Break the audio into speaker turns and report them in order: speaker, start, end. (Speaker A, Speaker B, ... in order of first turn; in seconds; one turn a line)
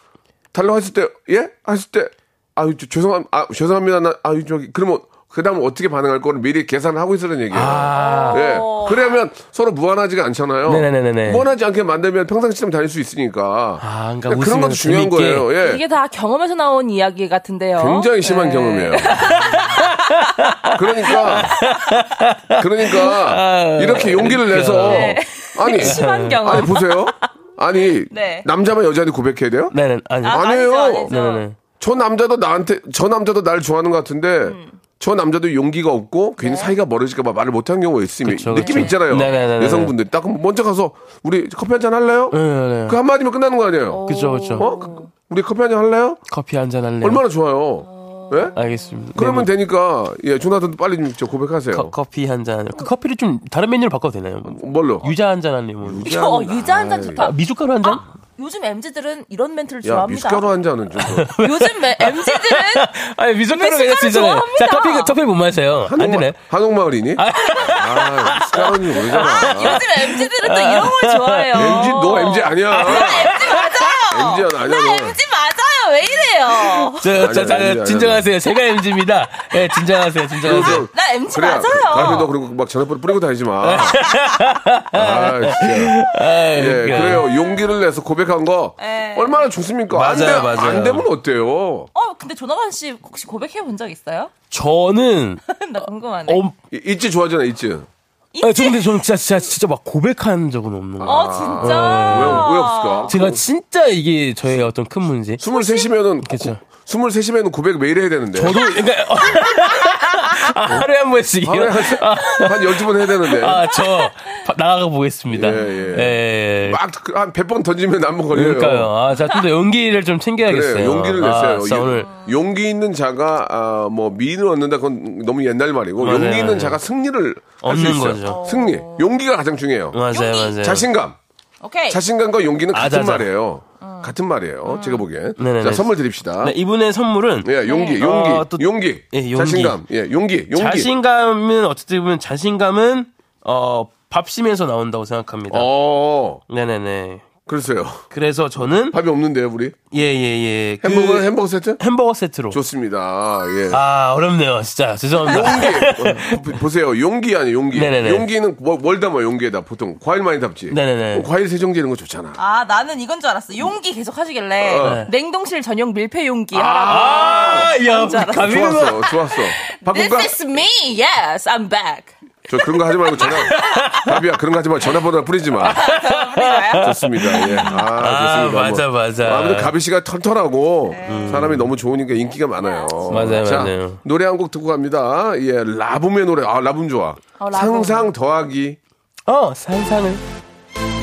Speaker A: 0.5-15.8
Speaker B: 7.5-8.5
Speaker C: 8.0-9.2
Speaker B: 10.7-11.4
Speaker B: 13.8-15.5
Speaker C: 15.6-21.7
Speaker A: 17.8-19.6
Speaker B: 19.2-25.2
Speaker A: 20.7-21.6
Speaker A: 22.6-31.1
Speaker C: 24.8-27.2
Speaker B: 25.8-26.8
Speaker C: 28.1-28.5
Speaker B: 29.7-30.4
Speaker C: 30.2-31.5
Speaker B: 31.1-31.6
Speaker A: 31.8-46.2
Speaker C: 34.4-34.8
Speaker C: 36.4-36.8
Speaker B: 38.2-39.9
Speaker C: 38.6-39.4
Speaker B: 42.3-43.0
Speaker C: 43.9-45.1
Speaker B: 44.1-44.7
Speaker B: 46.3-47.2
Speaker A: 47.0-48.5
Speaker C: 47.8-49.1
Speaker B: 48.6-49.5
Speaker A: 49.1-51.9
Speaker B: 51.7-56.4
Speaker A: 54.5-55.1
Speaker A: 55.8-57.3
Speaker C: 56.0-60.5
Speaker B: 57.2-58.0
Speaker A: 59.8-61.3
Speaker B: 61.0-66.4
Speaker C: 61.4-62.9
Speaker C: 63.5-65.2
Speaker A: 65.8-69.9
Speaker B: 67.2-72.2
Speaker C: 69.1-77.0
Speaker A: 71.5-75.2
Speaker B: 72.8-73.7
Speaker B: 76.6-80.9
Speaker A: 77.1-78.3
Speaker A: 80.4-84.0
Speaker C: 80.7-82.3
Speaker B: 81.9-82.3
Speaker B: 83.6-87.2
Speaker A: 84.9-91.9
Speaker C: 87.0-87.8
Speaker C: 88.8-89.5
Speaker B: 89.9-91.1
Speaker C: 92.0-94.3
Speaker B: 94.5-95.4
Speaker C: 95.5-96.4
Speaker B: 96.3-96.6
Speaker A: 96.7-97.9
Speaker C: 98.3-99.0
Speaker B: 98.4-102.5
Speaker A: 101.0-103.4
Speaker C: 101.0-103.1
Speaker B: 103.1-105.4
Speaker A: 105.4-108.6
Speaker C: 105.5-105.9
Speaker B: 106.2-106.6
Speaker B: 108.3-116.8
Speaker A: 111.4-113.7
Speaker A: 115.3-118.9
Speaker C: 115.6-116.0
Speaker B: 118.3-122.1
Speaker A: 120.4-130.0
Speaker C: 122.1-122.3
Speaker B: 126.0-126.8
Speaker B: 127.6-128.4
Speaker C: 128.2-129.1
Speaker B: 129.9-130.9
Speaker C: 130.1-130.6
Speaker A: 130.6-131.2
Speaker C: 131.6-132.0
Speaker A: 131.9-136.6
Speaker B: 132.7-133.3
Speaker C: 133.8-134.1
Speaker C: 134.7-135.0
Speaker B: 135.4-139.8
Speaker A: 137.4-140.9
Speaker C: 137.7-138.0
Speaker B: 140.6-145.7
Speaker A: 145.5-146.4
Speaker B: 146.5-147.3
Speaker A: 147.5-148.1
Speaker B: 148.1-149.0
Speaker A: 148.8-149.8
Speaker B: 149.9-152.6
Speaker A: 150.8-151.8
Speaker A: 152.5-153.8
Speaker B: 153.7-156.5
Speaker A: 155.2-162.4
Speaker B: 157.7-158.3
Speaker B: 160.7-161.3
Speaker C: 162.4-172.2
Speaker A: 164.6-165.1
Speaker B: 164.8-165.1
Speaker A: 166.5-167.7
Speaker B: 166.7-169.1
Speaker A: 168.4-170.3
Speaker A: 172.5-175.8
Speaker C: 173.2-173.9
Speaker B: 173.3-174.2
Speaker C: 175.6-177.8
Speaker B: 175.7-179.7
Speaker A: 176.8-188.8
Speaker C: 180.9-181.5
Speaker B: 181.1-181.7
Speaker C: 182.6-183.4
Speaker B: 183.1-184.0
Speaker C: 187.4-188.1
Speaker B: 189.3-190.2